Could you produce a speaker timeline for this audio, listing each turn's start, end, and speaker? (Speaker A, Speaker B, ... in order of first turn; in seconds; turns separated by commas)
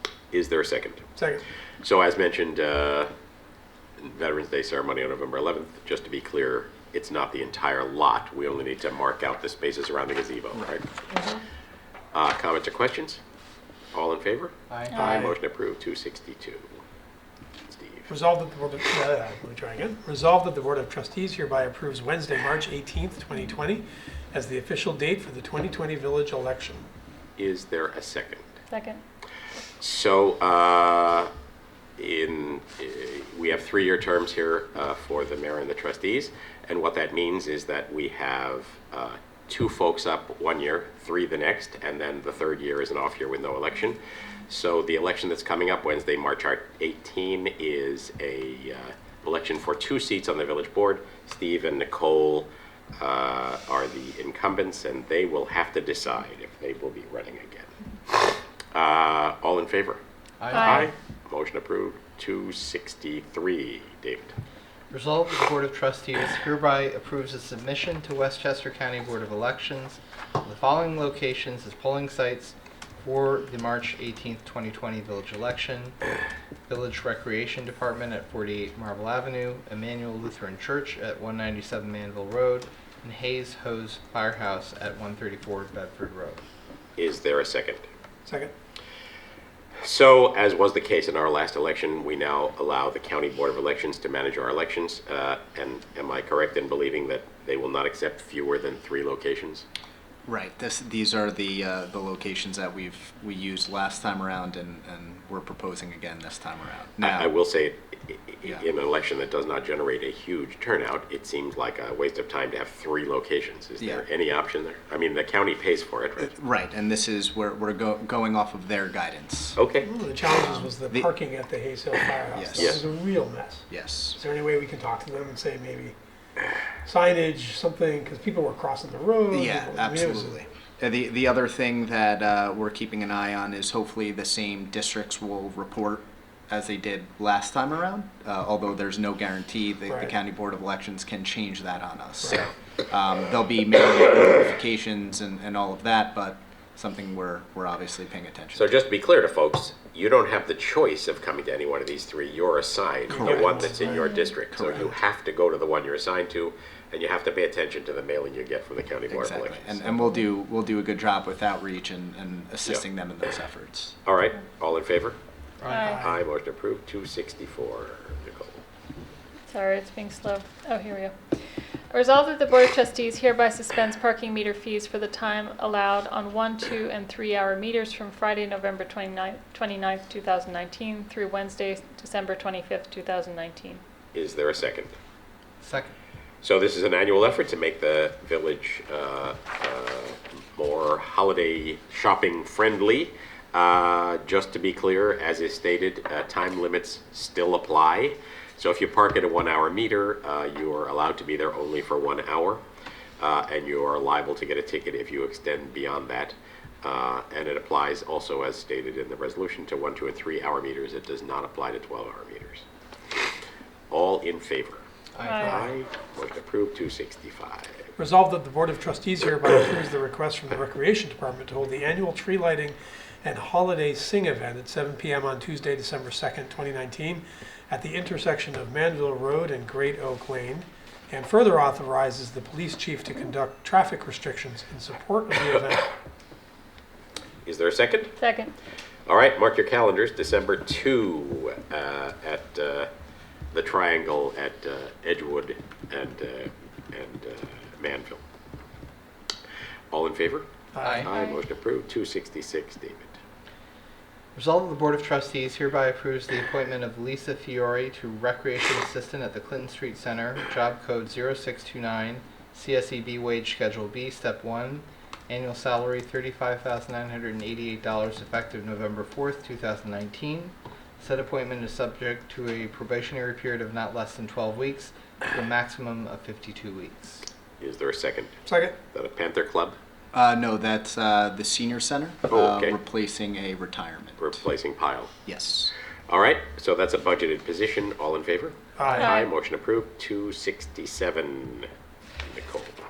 Speaker A: 0.3-1.1, Speaker B: 1.1-1.4, Speaker A: 1.8-3.1, Speaker A: 4.0-10.9, Speaker A: 12.1-13.2, Speaker A: 13.9-16.7, Speaker C: 14.7-15.2, Speaker A: 17.6-18.1, Speaker B: 18.1-26.9, Speaker A: 27.4-28.4, Speaker D: 28.7-29.0, Speaker A: 29.8-31.3, Speaker A: 32.0-60.0, Speaker C: 60.4-60.9, Speaker D: 60.5-60.9, Speaker A: 60.5-64.3, Speaker C: 64.9-76.0, Speaker C: 76.7-86.4, Speaker A: 87.0-87.8, Speaker B: 88.2-88.5, Speaker A: 89.8-99.6, Speaker E: 100.2-107.3, Speaker A: 107.0-116.3, Speaker E: 116.2-119.6, Speaker A: 119.5-119.9, Speaker B: 119.8-125.9, Speaker E: 122.3-122.8, Speaker E: 123.7-124.2, Speaker B: 126.8-130.3, Speaker E: 129.3-148.7, Speaker A: 148.5-159.9, Speaker B: 153.1-154.0, Speaker E: 153.1-154.9, Speaker E: 159.1-163.9, Speaker A: 164.1-165.2, Speaker C: 165.6-165.9, Speaker D: 165.7-166.0, Speaker B: 165.7-166.2, Speaker A: 166.0-168.6, Speaker D: 169.5-171.1, Speaker D: 171.9-183.8, Speaker A: 184.1-184.9, Speaker C: 185.6-185.9, Speaker A: 186.4-202.6, Speaker A: 203.2-212.6, Speaker A: 213.9-214.8, Speaker C: 215.1-215.7, Speaker D: 215.2-215.6, Speaker A: 215.4-217.8, Speaker B: 218.0-235.8, Speaker A: 237.4-238.1, Speaker D: 238.2-238.5, Speaker A: 239.1-242.9, Speaker A: 243.5-248.2, Speaker A: 249.9-250.5, Speaker B: 250.7-251.1, Speaker C: 250.8-251.1, Speaker A: 251.0-253.1, Speaker D: 251.1-251.4, Speaker C: 254.3-277.2, Speaker A: 277.6-279.8, Speaker B: 278.5-278.8, Speaker E: 280.1-284.3, Speaker A: 282.3-282.8, Speaker A: 284.2-285.1, Speaker E: 285.2-285.7, Speaker A: 286.1-291.7, Speaker B: 288.8-289.2, Speaker D: 288.9-289.3, Speaker A: 292.2-292.7